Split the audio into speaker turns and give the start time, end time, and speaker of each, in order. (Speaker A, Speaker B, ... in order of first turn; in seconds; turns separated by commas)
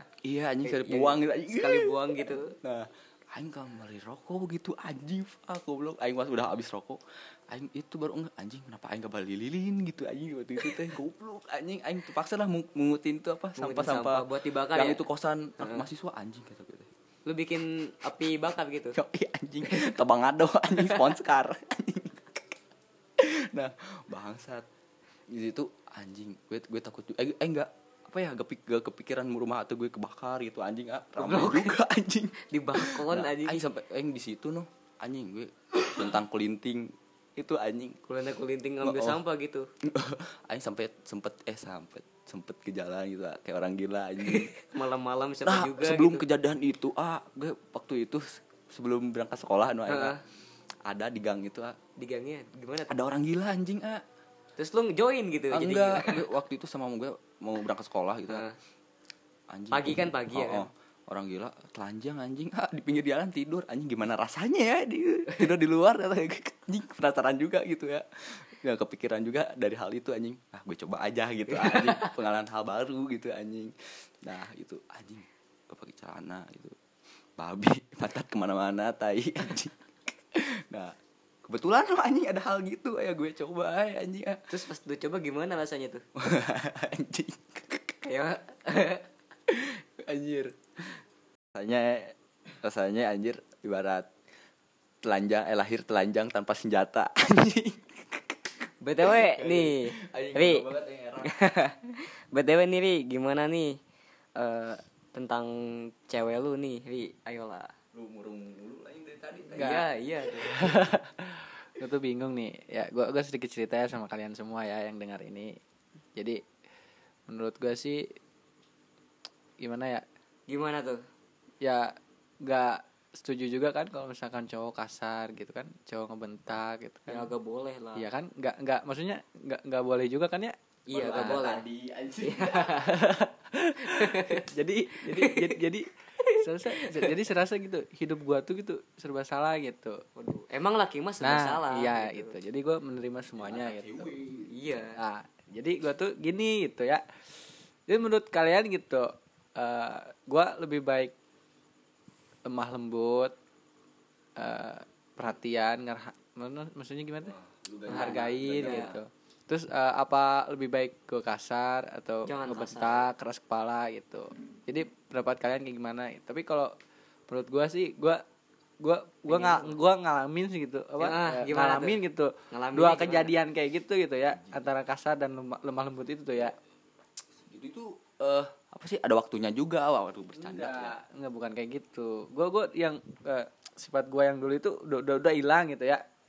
Speaker A: 0.2-16.9, Speaker B: 0.6-2.5, Speaker B: 13.6-15.0, Speaker B: 15.6-15.9, Speaker B: 17.3-19.0, Speaker A: 18.9-22.6, Speaker A: 23.2-24.6, Speaker A: 25.3-38.0, Speaker B: 31.2-31.7, Speaker B: 32.5-33.6, Speaker B: 38.1-39.7, Speaker A: 38.8-39.2, Speaker A: 39.8-44.5, Speaker B: 44.2-46.2, Speaker A: 45.4-50.2, Speaker B: 49.9-50.2, Speaker A: 50.9-51.8, Speaker B: 52.0-52.9, Speaker A: 52.9-54.0, Speaker B: 54.6-56.2, Speaker A: 55.5-58.5, Speaker B: 58.3-58.5, Speaker A: 59.5-76.8, Speaker B: 59.7-60.7, Speaker B: 71.5-72.1, Speaker A: 77.4-84.5, Speaker B: 84.5-86.0, Speaker A: 86.2-88.0, Speaker B: 88.0-89.1, Speaker A: 89.5-91.0, Speaker A: 91.5-94.1, Speaker A: 95.0-101.3, Speaker B: 98.8-100.7, Speaker B: 101.2-103.8, Speaker B: 104.3-107.7, Speaker A: 107.9-109.9, Speaker B: 109.5-110.6, Speaker C: 109.5-109.8, Speaker A: 110.5-110.8, Speaker C: 110.5-115.6, Speaker C: 116.2-116.4, Speaker C: 117.3-118.1, Speaker C: 119.6-120.0, Speaker B: 120.5-121.0, Speaker C: 121.6-127.3, Speaker B: 127.1-128.1, Speaker C: 128.0-131.4, Speaker B: 130.9-131.6, Speaker A: 130.9-132.9, Speaker B: 132.2-132.9, Speaker C: 132.8-140.0, Speaker B: 133.8-134.5, Speaker B: 135.0-135.6, Speaker B: 136.2-137.1, Speaker B: 140.2-142.3, Speaker C: 141.2-144.2, Speaker A: 143.3-144.7, Speaker B: 144.4-144.9, Speaker C: 144.9-147.0, Speaker C: 147.9-151.1, Speaker C: 152.4-153.3, Speaker C: 154.4-157.3, Speaker A: 157.2-159.0, Speaker B: 157.9-158.9, Speaker C: 157.9-166.7, Speaker B: 162.3-163.1, Speaker C: 167.3-168.2, Speaker C: 168.8-176.6, Speaker B: 169.3-169.7, Speaker B: 171.0-172.0, Speaker B: 172.5-173.3, Speaker A: 174.3-174.6, Speaker A: 177.4-180.9, Speaker C: 180.3-186.0